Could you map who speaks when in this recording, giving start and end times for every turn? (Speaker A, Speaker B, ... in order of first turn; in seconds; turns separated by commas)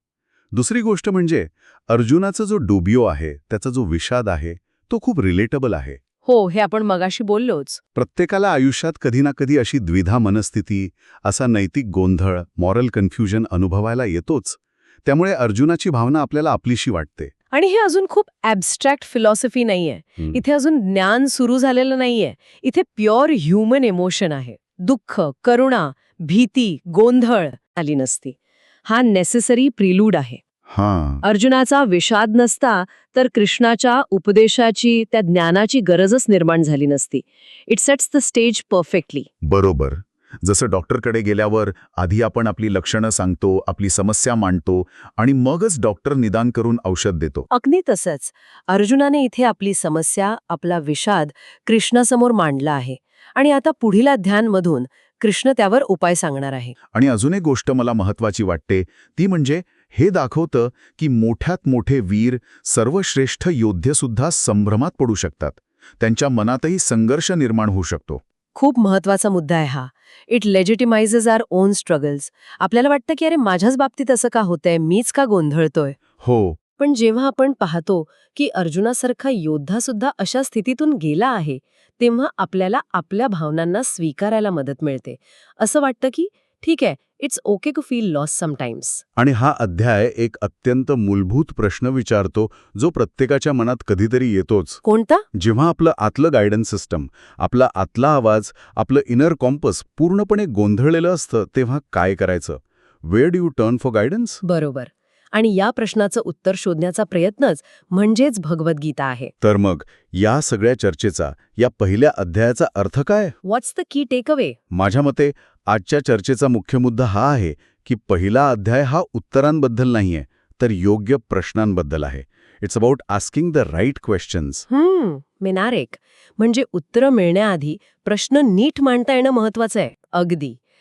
Speaker A: 0.5-6.0, Speaker B: 6.2-7.8, Speaker A: 8.0-17.3, Speaker B: 17.5-30.4, Speaker A: 30.7-31.2, Speaker B: 31.2-39.3, Speaker A: 39.4-47.5, Speaker B: 47.5-56.7, Speaker A: 56.9-68.2, Speaker B: 68.5-76.0, Speaker A: 76.2-76.6, Speaker B: 76.8-89.0, Speaker A: 89.2-94.8, Speaker B: 94.8-95.2, Speaker A: 95.3-104.4, Speaker B: 104.4-109.3, Speaker A: 109.4-113.3, Speaker B: 113.4-114.6, Speaker A: 114.7-124.7, Speaker B: 124.7-130.6